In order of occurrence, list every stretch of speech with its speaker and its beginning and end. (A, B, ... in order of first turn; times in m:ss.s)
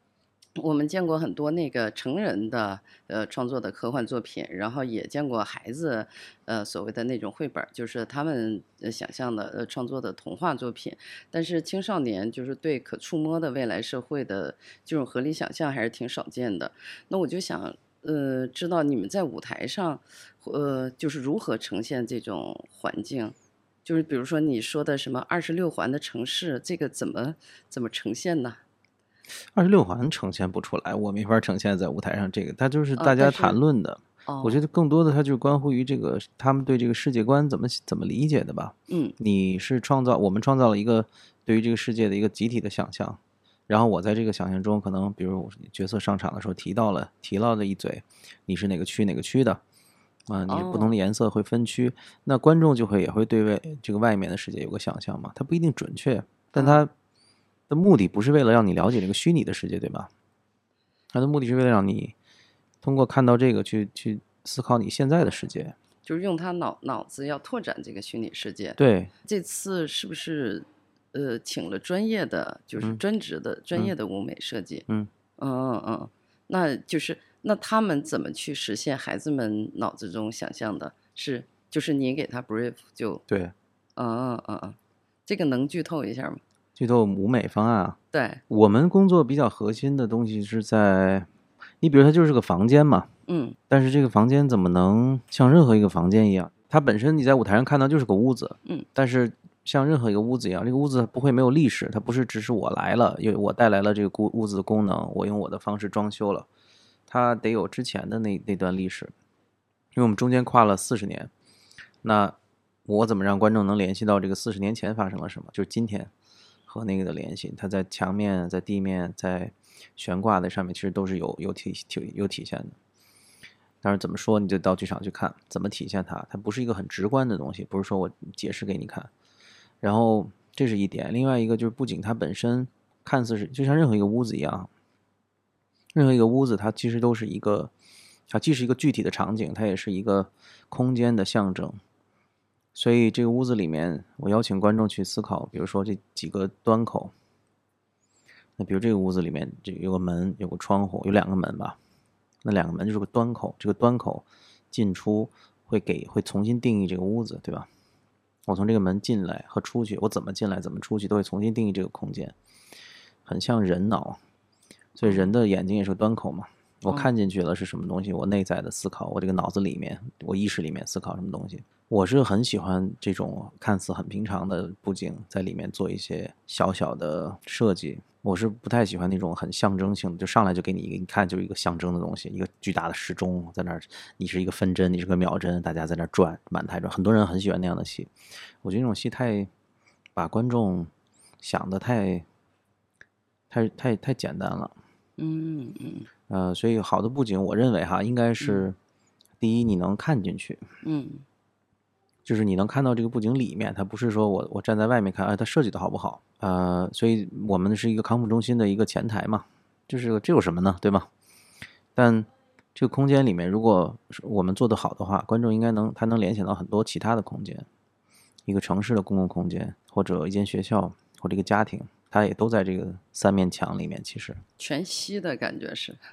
0:00.6-0:28.6 A
0:29.5-0:49.6 B
0:33.0-0:33.6 A
0:34.3-0:34.6 A
0:38.9-0:39.1 A
0:50.3-0:56.9 B
0:50.5-0:50.9 A
0:56.5-0:56.8 A
0:57.7-1:00.1 B
1:01.1-1:02.1 B
1:02.8-1:05.7 B
1:06.0-1:14.8 A
1:08.8-1:09.1 B
1:15.4-1:23.2 A
1:23.3-1:23.5 B
1:24.0-1:26.4 A
1:26.8-1:28.0 B
1:28.1-1:28.4 A
1:28.5-1:31.3 B
1:31.8-1:33.1 B
1:33.3-1:33.6 A
1:33.7-1:46.5 B
1:47.1-1:49.1 B
1:49.9-1:51.3 B
1:52.0-1:56.1 B
1:56.7-2:02.8 B
2:03.8-2:09.1 B
2:09.8-2:14.7 B
2:15.9-2:17.7 B
2:18.3-2:21.8 B
2:22.7-2:27.1 B
2:28.6-2:31.8 B
2:32.4-2:37.7 B
2:38.4-2:42.3 B
2:43.2-2:44.2 B
2:45.0-3:08.1 B
2:45.0-2:45.3 A
3:08.6-3:09.5 B
3:10.1-3:10.9 B
3:11.4-3:12.2 B
3:13.5-3:14.7 B
3:15.2-3:16.1 A
3:16.3-3:18.8 B
3:18.4-3:18.6 A
3:19.4-3:20.6 B
3:20.8-3:21.2 A
3:22.2-3:31.1 B
3:31.9-3:37.7 B
3:38.4-3:44.4 B
3:44.6-3:46.0 A